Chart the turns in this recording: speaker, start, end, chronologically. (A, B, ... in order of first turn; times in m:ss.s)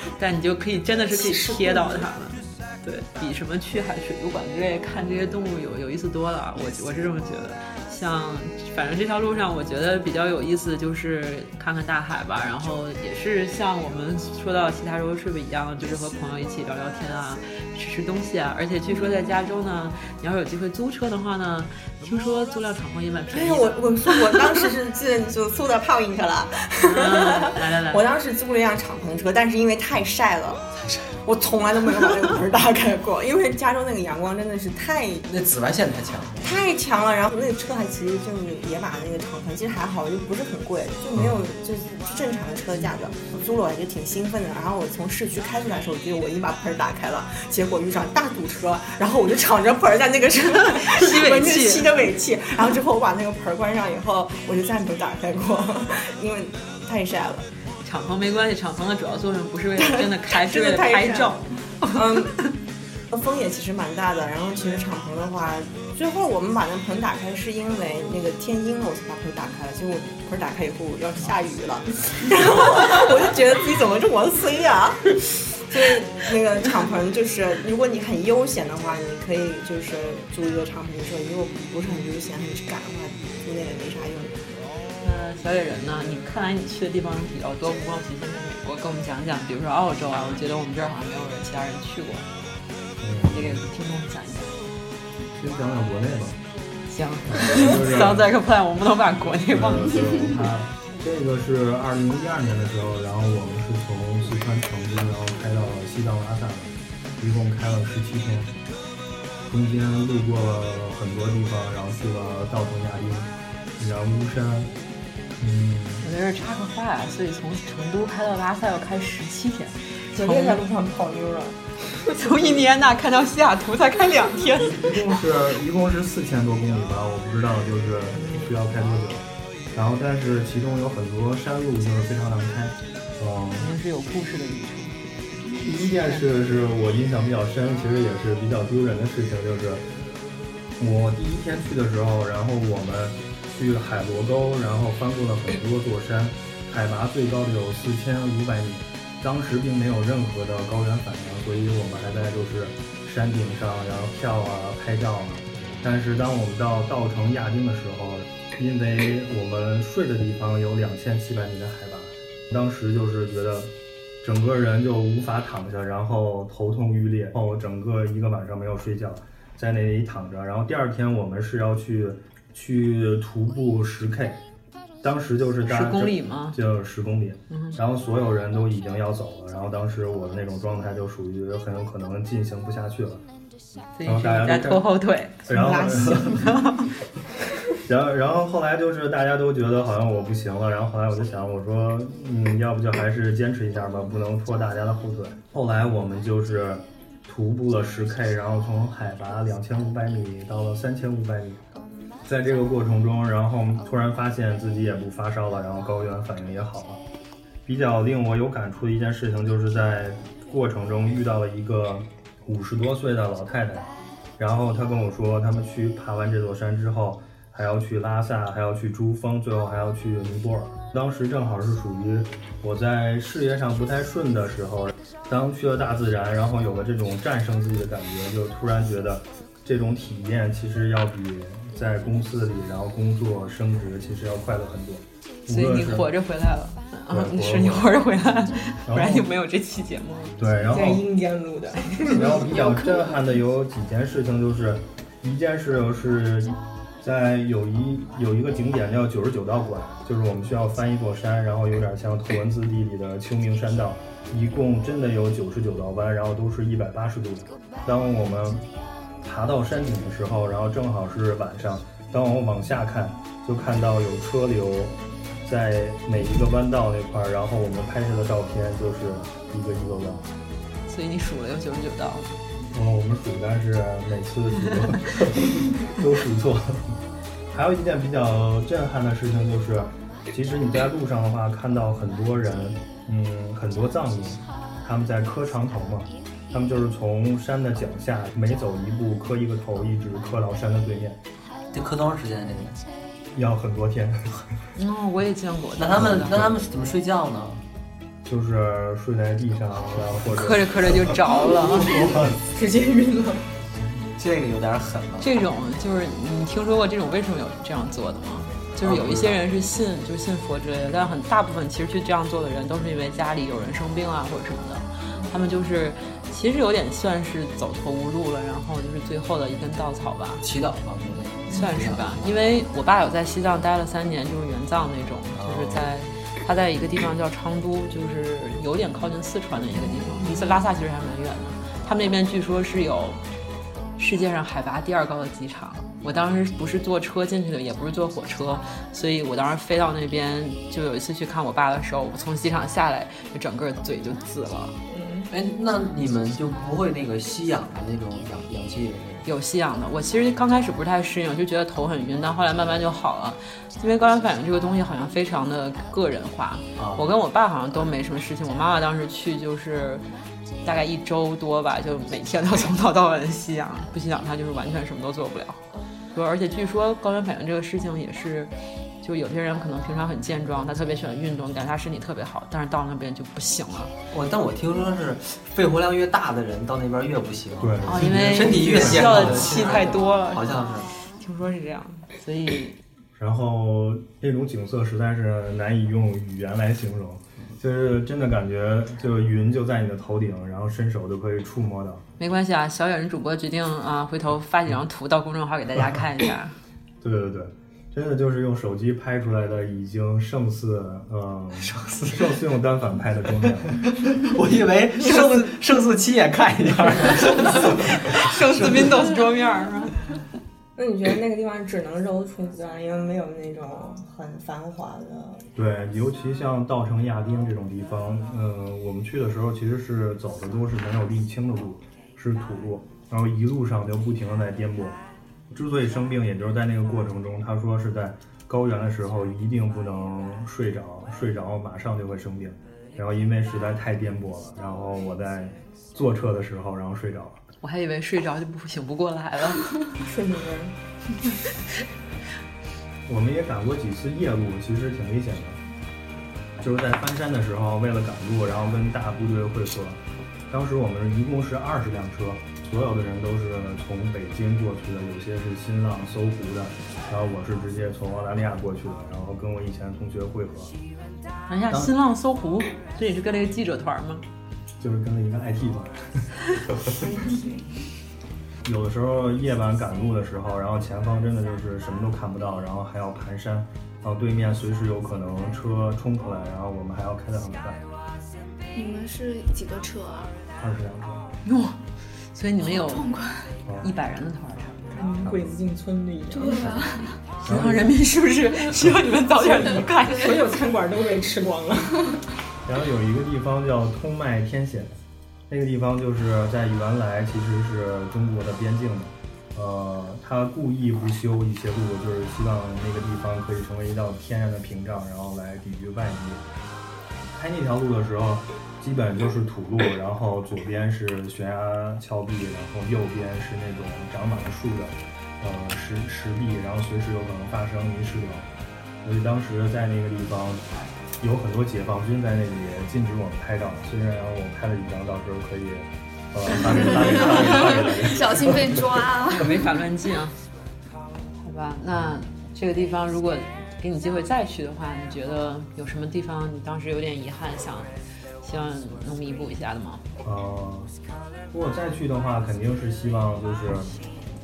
0:00.2-0:24.6 A
0:01.1-0:02.0 B
0:23.3-0:30.6 B
0:26.9-0:28.0 A
0:30.7-0:31.1 C
0:31.2-0:35.2 B
0:35.3-0:36.6 C
0:36.4-0:57.4 B
0:50.6-0:51.9 A
0:57.8-1:02.5 A
0:59.8-1:02.4 B
1:03.1-1:24.4 B
1:25.0-1:32.3 A
1:33.0-1:33.6 D
1:33.3-1:34.6 A
1:35.3-1:36.4 D
1:36.9-1:40.2 A
1:37.3-1:38.3 D
1:39.5-1:48.5 D
1:49.4-1:54.7 D
1:55.4-1:56.0 D
1:56.0-2:00.6 A
2:00.1-2:02.6 B
2:02.1-2:04.9 A
2:04.5-2:13.7 D
2:08.1-2:08.5 A
2:13.6-2:15.1 A
2:15.6-2:19.8 D
2:15.8-2:16.3 A
2:20.8-2:54.4 D
2:55.0-3:03.2 D
2:55.7-2:56.6 A
2:57.5-2:57.8 A
3:04.0-3:05.5 A
3:04.0-3:04.8 D
3:05.4-3:06.4 D
3:05.5-3:06.4 B
3:06.0-3:06.8 A
3:07.8-3:21.6 D
3:22.2-3:27.0 D
3:27.6-3:56.1 D
3:55.5-4:00.4 A
3:57.1-3:58.0 D
3:58.8-3:59.3 D
4:00.4-4:01.1 D
4:00.7-4:02.8 B
4:02.1-4:18.6 D
4:19.2-4:30.2 D
4:30.9-4:32.3 A
4:32.7-4:37.0 D
4:37.5-4:51.2 D
4:51.7-4:52.8 C
4:53.3-4:54.4 D
4:54.7-4:56.5 A
4:55.8-4:57.6 C
4:58.2-5:01.2 D
5:00.3-5:02.2 A
5:01.8-5:02.4 D
5:02.5-5:03.4 B
5:03.9-5:05.3 C
5:05.2-5:20.4 A
5:08.8-5:09.4 C
5:20.4-5:22.1 C
5:21.5-5:33.2 A
5:25.3-5:25.8 C
5:34.0-5:44.8 A
5:44.9-5:45.3 B
5:45.3-5:49.3 C
5:49.2-6:00.0 A
5:56.8-5:57.0 C
6:00.6-6:05.6 A
6:06.1-6:13.9 A
6:14.1-6:20.9 C
6:17.6-6:19.7 D
6:17.8-6:20.5 A
6:21.0-6:22.8 A
6:23.2-6:32.0 D
6:32.2-6:36.5 A
6:37.0-6:43.9 D
6:41.6-6:42.3 C
6:43.8-6:48.9 C
6:47.5-6:49.9 A
6:50.8-6:55.4 B
6:55.5-7:05.0 D
7:05.5-7:17.4 D
7:17.6-7:19.7 A
7:20.0-7:20.7 B
7:23.1-7:25.6 D
7:26.6-7:40.8 D
7:41.5-7:44.2 A
7:41.7-7:41.9 D
7:44.8-7:46.9 D
7:48.6-7:57.8 D
7:58.7-8:00.3 E
8:00.6-8:01.2 D
8:01.4-8:01.8 A
8:02.3-8:03.1 A
8:02.8-8:03.4 E
8:03.8-8:05.0 A
8:04.9-8:06.7 B
8:05.2-8:05.5 D
8:06.3-8:07.1 E
8:07.4-8:07.9 D
8:07.4-8:10.4 A
8:09.4-8:12.2 B
8:12.6-8:15.0 D
8:15.5-8:26.4 D
8:27.3-8:38.5 D
8:39.0-8:40.6 D
8:41.2-8:49.2 D
8:46.9-8:49.5 E
8:49.3-8:50.3 A
8:51.4-8:57.9 A
8:58.4-9:00.0 A
9:00.2-9:00.9 D
9:01.5-9:03.9 D